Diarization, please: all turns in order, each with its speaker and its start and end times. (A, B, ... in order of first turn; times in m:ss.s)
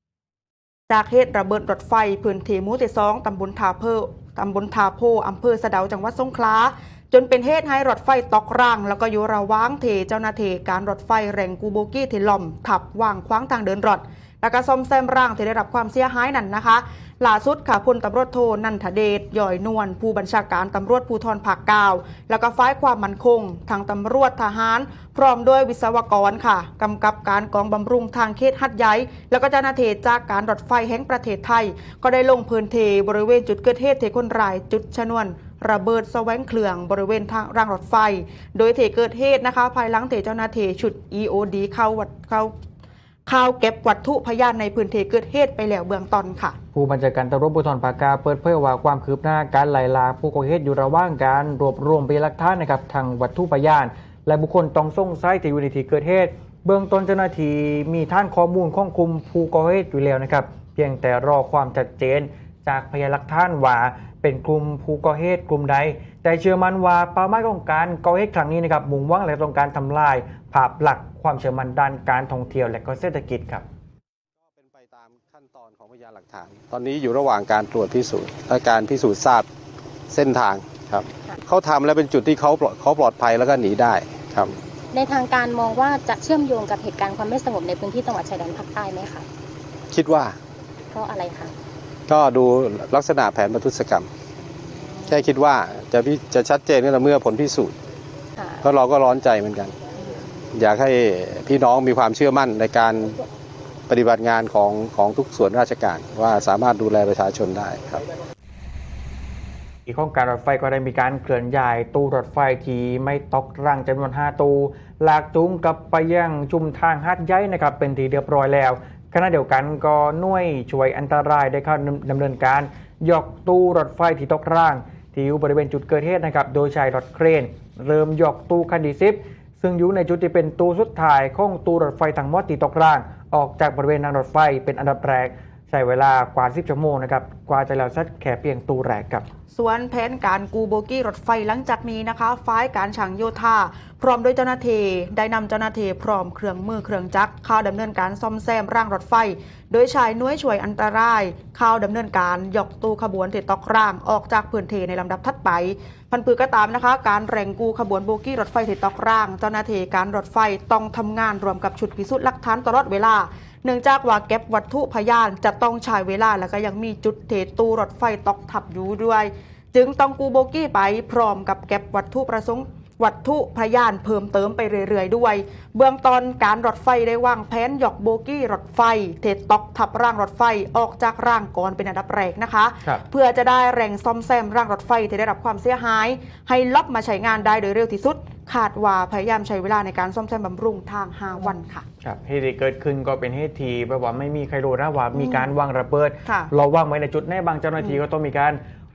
0:00.9-0:42.5 A
0:43.3-0:46.6 A
0:46.7-1:13.6 B
1:14.4-1:19.5 C
1:20.1-1:24.6 C
1:24.9-1:29.3 D
1:29.9-1:30.4 C
1:30.9-1:31.5 D
1:32.1-1:34.1 C
1:35.1-1:37.8 C
1:38.4-1:38.6 D
1:38.6-1:39.8 C
1:40.5-1:43.2 C
1:43.9-1:48.0 C
1:49.9-2:19.3 B
2:19.5-3:11.8 A
3:12.0-3:18.6 B
3:15.1-3:15.5 A
3:16.2-3:16.5 A